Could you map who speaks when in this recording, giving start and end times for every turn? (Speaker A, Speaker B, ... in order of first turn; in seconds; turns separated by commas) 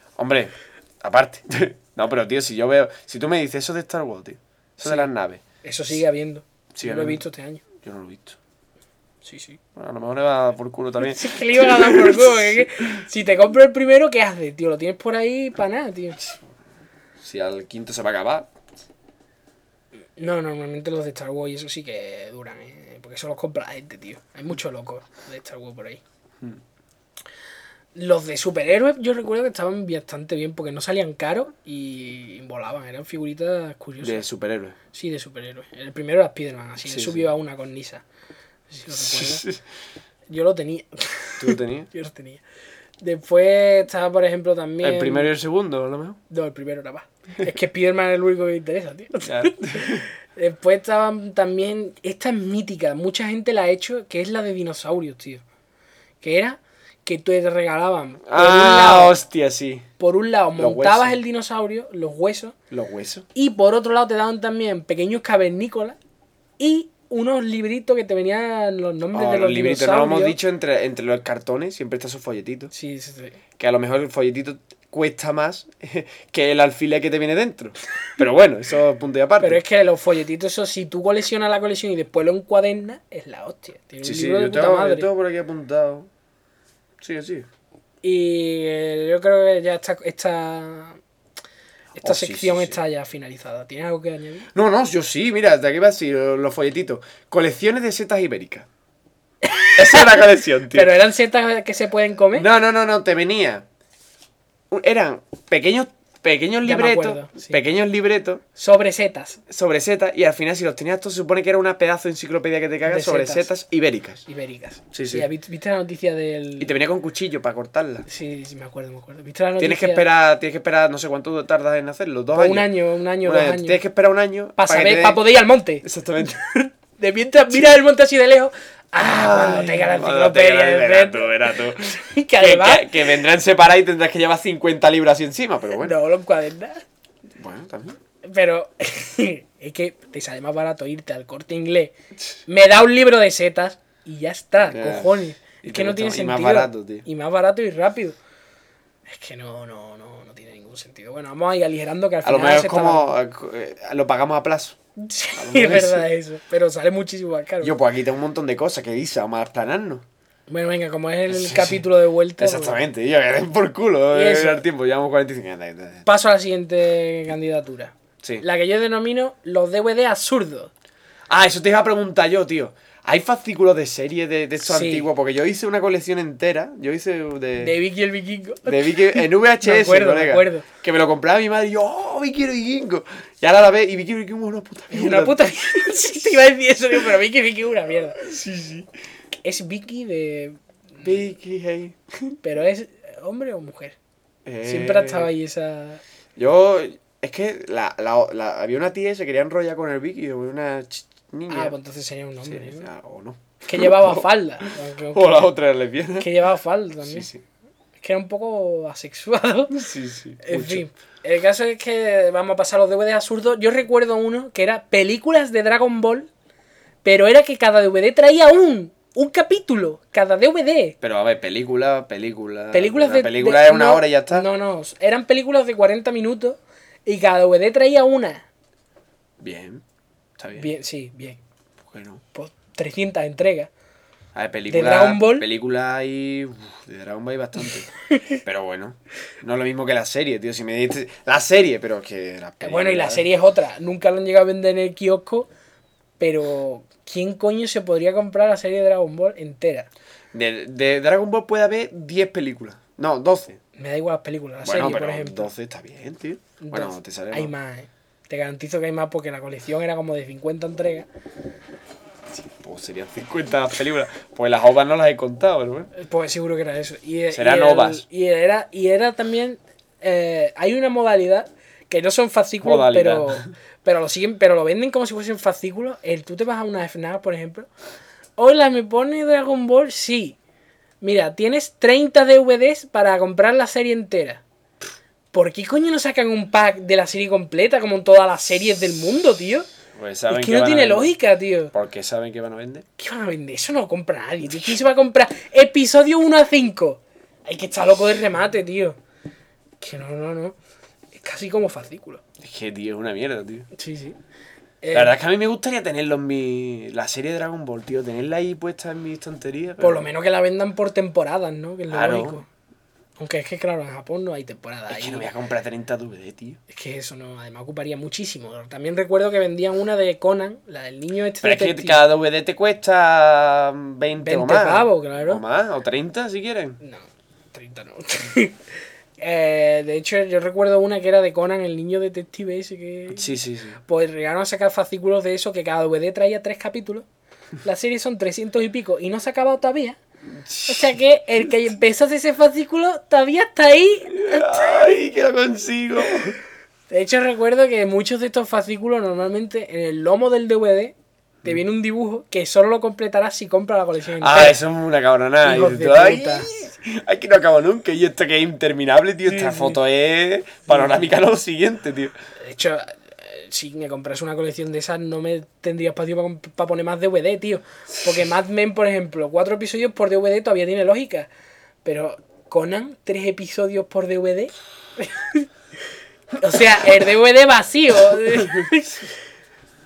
Speaker A: 0.2-5.4, Speaker B: 5.6-7.6, Speaker A: 6.7-7.2, Speaker A: 7.8-8.4, Speaker B: 9.2-9.6, Speaker A: 9.7-13.0, Speaker B: 11.0-16.2, Speaker A: 17.2-18.5, Speaker B: 20.2-26.0, Speaker B: 27.9-34.2, Speaker A: 34.0-34.8, Speaker B: 34.9-38.0, Speaker A: 36.9-37.3, Speaker B: 38.7-39.4, Speaker A: 38.9-39.6, Speaker B: 40.3-42.4, Speaker A: 41.4-41.9, Speaker B: 43.0-45.3, Speaker A: 44.8-46.2, Speaker B: 46.3-55.4, Speaker A: 49.2-50.1, Speaker B: 56.2-59.1, Speaker A: 58.3-59.9, Speaker B: 60.0-62.5, Speaker A: 60.6-61.2, Speaker A: 62.7-63.3, Speaker B: 63.3-66.0, Speaker B: 66.6-70.4, Speaker A: 69.1-72.7, Speaker B: 72.7-73.4, Speaker A: 73.6-79.6, Speaker B: 79.4-85.1, Speaker A: 84.0-86.1, Speaker A: 87.0-87.5, Speaker B: 88.0-91.0, Speaker B: 92.0-94.5, Speaker A: 92.0-92.8, Speaker A: 94.5-98.7, Speaker B: 99.4-102.5, Speaker A: 99.8-100.9, Speaker A: 102.3-103.6, Speaker A: 104.7-108.4, Speaker B: 106.6-107.6, Speaker B: 108.5-109.4, Speaker A: 109.5-114.2, Speaker B: 112.8-113.5, Speaker B: 114.3-116.7, Speaker A: 114.9-115.3, Speaker A: 116.6-118.0, Speaker B: 118.0-120.1, Speaker A: 119.6-122.7, Speaker B: 122.3-123.8, Speaker A: 123.2-125.2, Speaker B: 124.6-133.1, Speaker A: 125.8-126.4, Speaker A: 129.0-135.9, Speaker B: 135.8-136.8, Speaker A: 137.4-138.0, Speaker B: 138.2-141.9, Speaker B: 142.5-148.2, Speaker A: 144.7-147.1, Speaker B: 149.1-153.1, Speaker A: 152.2-154.8, Speaker B: 155.0-157.8, Speaker A: 155.3-156.1, Speaker A: 157.6-160.0, Speaker B: 160.5-162.8, Speaker A: 161.3-161.8, Speaker A: 162.4-166.0, Speaker B: 164.1-164.6, Speaker B: 166.1-170.7, Speaker A: 171.3-177.7, Speaker B: 174.6-175.1, Speaker B: 177.6-180.7, Speaker A: 178.6-186.4, Speaker B: 184.9-188.2, Speaker A: 188.1-188.9, Speaker B: 189.4-191.1, Speaker A: 191.0-192.3, Speaker B: 192.4-193.9, Speaker A: 194.4-195.3, Speaker B: 194.6-196.0, Speaker A: 196.3-201.7, Speaker B: 201.5-202.9, Speaker A: 202.4-206.3, Speaker B: 203.6-205.5, Speaker B: 206.2-207.3, Speaker A: 207.0-207.4, Speaker B: 208.0-209.8, Speaker A: 209.7-210.8, Speaker B: 210.4-216.3, Speaker B: 217.0-220.9, Speaker A: 221.0-224.5, Speaker B: 222.7-228.4, Speaker A: 229.4-229.8, Speaker A: 230.4-230.7, Speaker B: 230.6-231.4, Speaker A: 231.8-232.2, Speaker B: 232.3-233.7, Speaker A: 234.3-237.9, Speaker B: 234.7-235.4, Speaker B: 238.1-238.4, Speaker A: 238.4-243.2, Speaker B: 242.6-245.5, Speaker B: 246.2-249.9, Speaker A: 250.3-253.6, Speaker B: 253.7-255.5, Speaker A: 254.6-257.5, Speaker B: 256.6-261.1, Speaker A: 262.4-265.9, Speaker B: 265.9-277.7, Speaker A: 267.3-268.0, Speaker A: 272.6-273.4, Speaker B: 278.4-280.4, Speaker B: 281.0-284.4, Speaker B: 285.3-289.7, Speaker A: 289.9-291.1, Speaker B: 290.3-291.7, Speaker A: 291.7-292.9, Speaker B: 293.0-299.0, Speaker B: 299.8-300.6, Speaker B: 301.1-302.2, Speaker A: 302.4-303.7, Speaker B: 303.7-304.2, Speaker B: 304.8-305.1, Speaker A: 304.9-310.1, Speaker B: 309.8-312.4, Speaker A: 311.9-312.4, Speaker B: 313.2-315.3, Speaker A: 314.9-316.6, Speaker B: 316.7-322.0, Speaker A: 321.4-326.8, Speaker B: 324.2-325.4, Speaker B: 326.8-328.6, Speaker B: 329.2-333.3, Speaker A: 333.1-333.8, Speaker B: 333.9-337.1, Speaker B: 337.6-340.0, Speaker A: 340.3-341.0, Speaker B: 340.7-344.8, Speaker A: 344.1-346.3, Speaker B: 346.9-354.6, Speaker A: 354.2-362.1, Speaker B: 355.4-356.5, Speaker B: 359.2-359.8, Speaker B: 362.4-371.3, Speaker B: 371.8-375.5, Speaker B: 376.4-379.1, Speaker A: 378.3-378.6